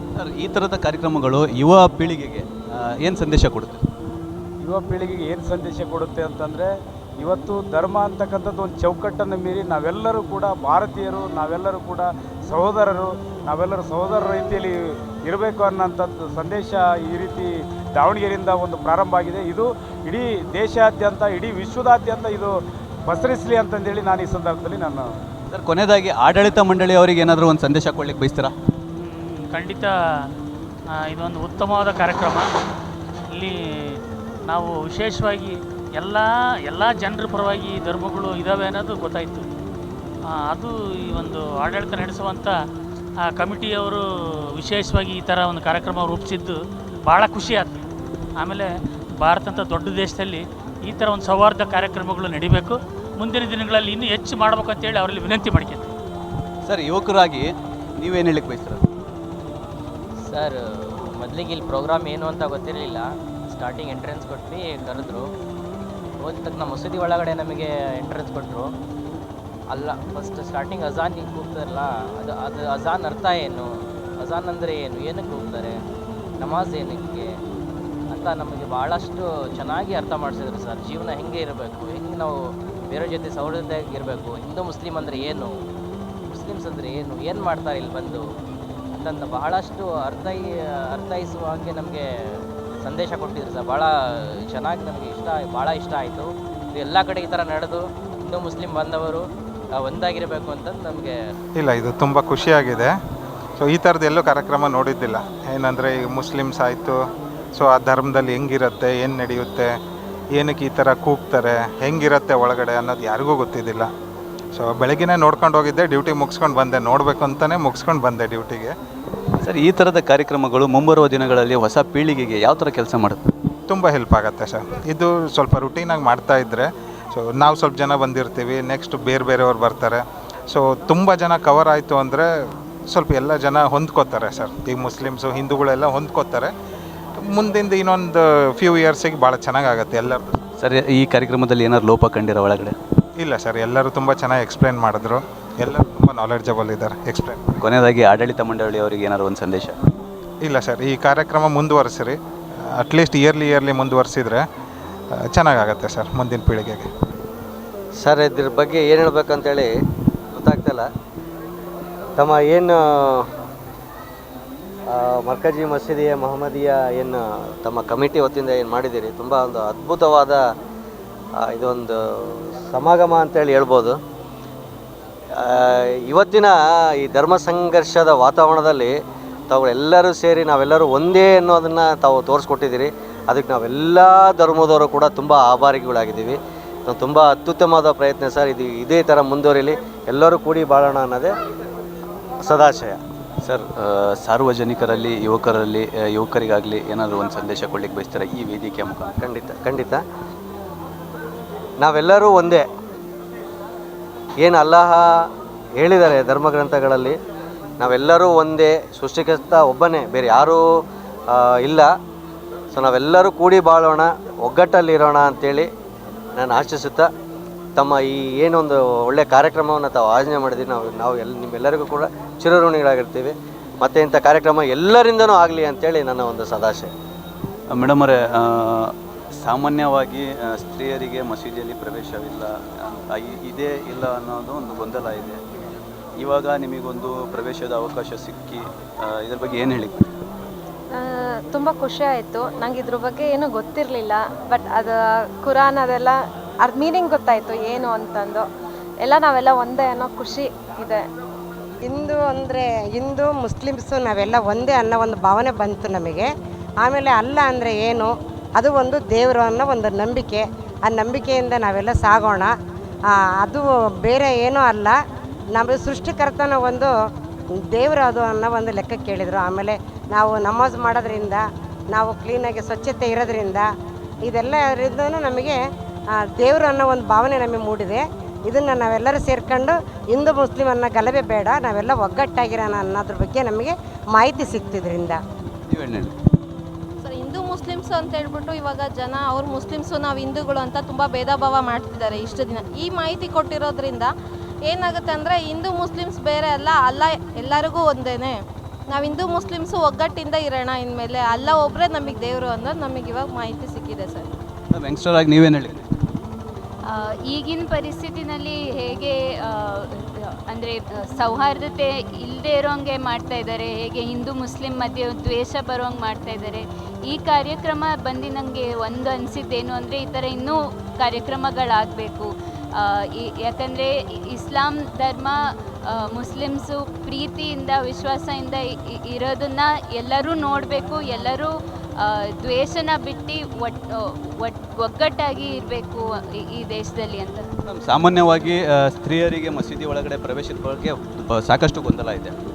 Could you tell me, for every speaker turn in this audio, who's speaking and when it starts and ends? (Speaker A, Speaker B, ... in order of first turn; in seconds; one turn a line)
Speaker A: 0.2-3.9
Speaker B: 4.6-6.7
Speaker B: 7.2-22.5
Speaker B: 23.1-25.1
Speaker A: 25.5-28.5
Speaker C: 29.0-29.9
Speaker C: 31.0-32.5
Speaker C: 33.3-39.5
Speaker C: 40.3-42.5
Speaker C: 43.2-44.0
Speaker C: 44.6-46.6
Speaker C: 47.1-47.8
Speaker C: 48.4-55.9
Speaker A: 56.7-58.9
Speaker D: 60.3-65.3
Speaker D: 66.2-68.7
Speaker D: 69.7-75.8
Speaker D: 76.4-77.3
Speaker D: 78.1-85.5
Speaker D: 86.3-88.2
Speaker D: 88.9-99.2
Speaker D: 99.8-101.2
Speaker E: 101.6-102.9
Speaker E: 103.6-107.0
Speaker E: 107.5-109.7
Speaker E: 110.3-113.9
Speaker E: 114.5-118.7
Speaker A: 119.4-123.3
Speaker E: 123.7-132.3
Speaker E: 132.9-136.5
Speaker E: 137.2-140.4
Speaker A: 140.6-142.8
Speaker E: 143.2-147.4
Speaker A: 147.6-149.8
Speaker E: 150.4-154.4
Speaker E: 155.1-156.9
Speaker F: 158.0-159.7
Speaker F: 160.3-160.8
Speaker F: 162.2-163.3
Speaker F: 164.9-170.4
Speaker F: 171.4-173.9
Speaker F: 175.4-178.9
Speaker F: 179.5-186.4
Speaker F: 186.9-191.3
Speaker F: 192.4-193.0
Speaker A: 193.4-199.2
Speaker F: 199.2-200.0
Speaker F: 201.8-202.6
Speaker F: 204.4-205.1
Speaker F: 205.8-207.2
Speaker F: 207.8-210.6
Speaker F: 211.3-211.9
Speaker F: 212.7-215.7
Speaker F: 216.4-217.1
Speaker F: 217.8-226.9
Speaker A: 227.7-235.4
Speaker A: 236.2-240.1
Speaker G: 240.9-248.5
Speaker G: 249.0-251.1
Speaker H: 251.8-256.3
Speaker H: 256.8-262.6
Speaker H: 263.1-265.0
Speaker H: 265.5-266.9
Speaker H: 267.6-273.7
Speaker H: 274.2-275.6
Speaker H: 276.2-285.2
Speaker A: 285.7-286.1
Speaker I: 287.0-294.1
Speaker I: 294.7-304.3
Speaker A: 304.7-305.9
Speaker J: 306.9-337.5
Speaker A: 337.6-342.3